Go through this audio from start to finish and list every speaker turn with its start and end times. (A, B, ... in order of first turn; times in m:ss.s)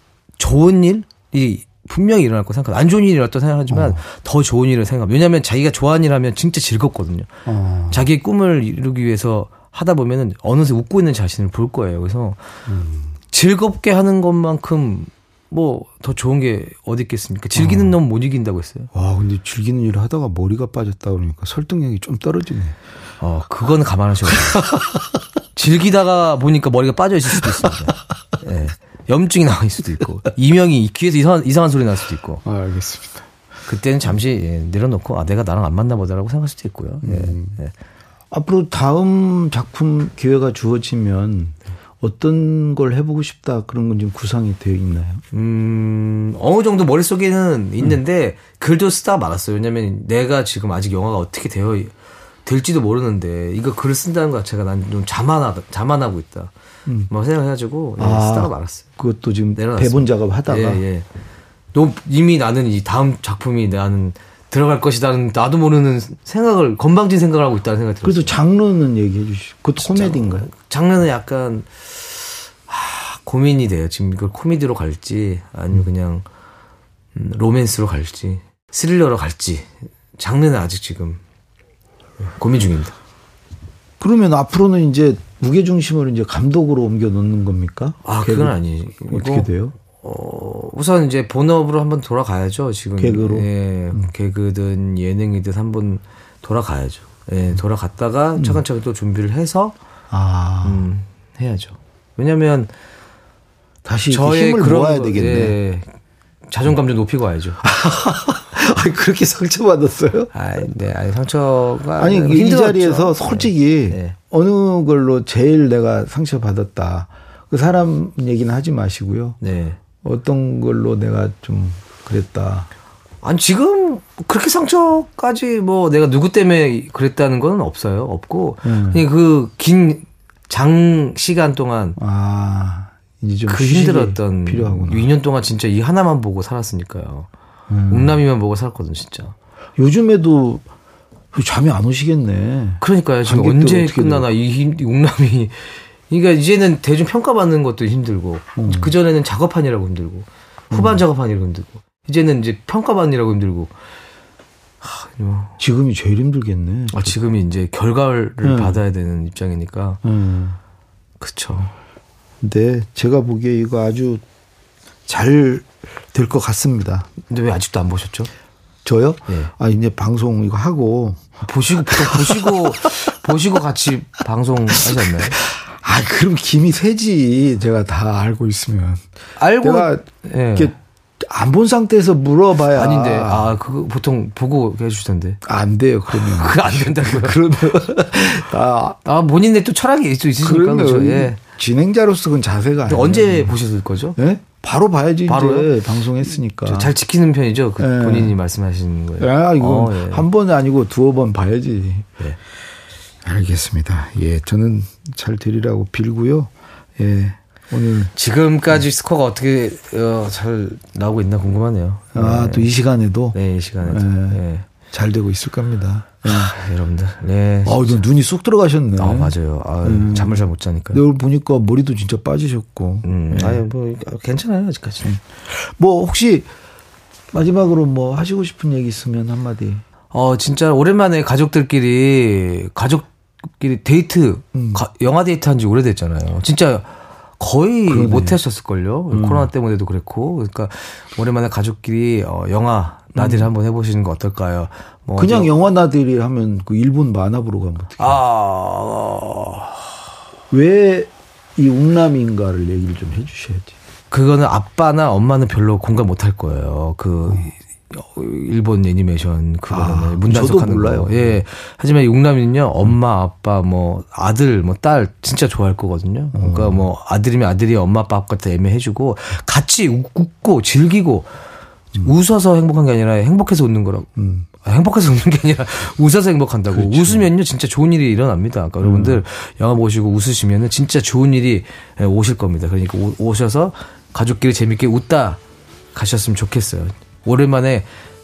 0:00.4-0:07.3 A
0:03.7-0:04.0 B
0:07.4-0:08.0 B
0:07.9-0:12.4 A
0:12.7-0:13.1 B
0:13.3-0:18.9 A
0:17.5-0:18.0 B
0:18.9-0:22.8 B
0:23.2-0:24.7 A
0:24.6-0:25.0 B
0:25.5-0:32.4 A
0:27.4-0:27.7 B
0:32.4-0:33.2 B
0:33.7-0:37.7 A
0:37.0-0:37.6 B
0:38.3-0:45.2 B
0:45.3-0:51.9 A
0:52.4-0:56.5 A
0:57.1-0:58.9 A
0:58.0-1:00.8 B
0:59.6-1:01.0 A
1:01.7-1:08.3 A
1:08.0-1:10.5 B
1:09.8-1:16.3 A
1:17.1-1:21.2 A
1:22.3-1:23.0 A
1:24.0-1:29.7 B
1:28.0-1:39.7 A
1:33.0-1:34.1 B
1:38.4-1:38.6 B
1:40.1-1:40.9 B
1:40.6-1:42.7 A
1:43.8-1:45.6 B
1:44.1-1:45.9 A
1:46.5-1:47.6 A
1:47.6-1:50.3 B
1:50.3-1:54.2 A
1:52.0-1:59.4 B
1:59.4-1:59.8 A
2:00.0-2:02.7 B
2:03.2-2:12.0 A
2:08.6-2:09.0 B
2:12.0-2:15.1 B
2:13.5-2:17.3 A
2:17.7-2:18.2 B
2:17.9-2:19.3 A
2:19.8-2:20.6 B
2:21.3-2:24.3 B
2:22.8-2:33.7 A
2:28.6-2:28.9 B
2:30.7-2:31.0 B
2:34.8-2:35.6 A
2:35.6-2:37.2 B
2:36.9-2:40.0 A
2:38.4-2:38.8 B
2:40.0-2:40.6 B
2:41.2-2:41.7 A
2:42.4-2:44.2 B
2:45.1-2:47.1 B
2:47.3-2:48.3 A
2:48.8-2:51.3 B
2:51.4-2:55.4 A
2:51.9-2:53.1 B
2:54.7-2:59.0 B
2:59.4-3:00.7 A
2:59.6-3:03.5 B
3:02.7-3:05.4 A
3:05.4-3:09.0 B
3:06.1-3:07.4 A
3:09.0-3:11.4 A
3:10.4-3:13.6 B
3:12.9-3:14.2 A
3:14.2-3:16.9 B
3:15.3-3:15.8 A
3:16.6-3:20.3 A
3:17.8-3:18.3 B
3:19.2-3:22.2 B
3:23.2-3:28.1 B
3:28.1-3:32.7 A
3:32.1-3:36.5 B
3:33.3-3:34.7 A
3:36.2-3:38.0 A
3:37.6-3:43.6 B
3:39.0-3:41.0 A
3:43.0-3:45.1 A
3:45.0-3:46.5 B
3:47.3-3:49.8 B
3:50.1-3:53.1 A
3:53.6-4:05.5 A
3:54.5-3:54.8 B
3:57.9-3:58.4 B
3:59.1-3:59.5 B
4:03.1-4:03.5 B
4:05.2-4:08.2 B
4:08.0-4:09.9 A
4:10.5-4:13.7 B
4:14.1-4:31.3 A
4:19.7-4:21.4 B
4:26.3-4:26.9 B
4:32.0-4:34.1 A
4:34.2-4:34.5 B
4:34.6-4:45.4 A
4:36.7-4:37.3 B
4:38.8-4:39.2 B
4:45.9-4:47.9 A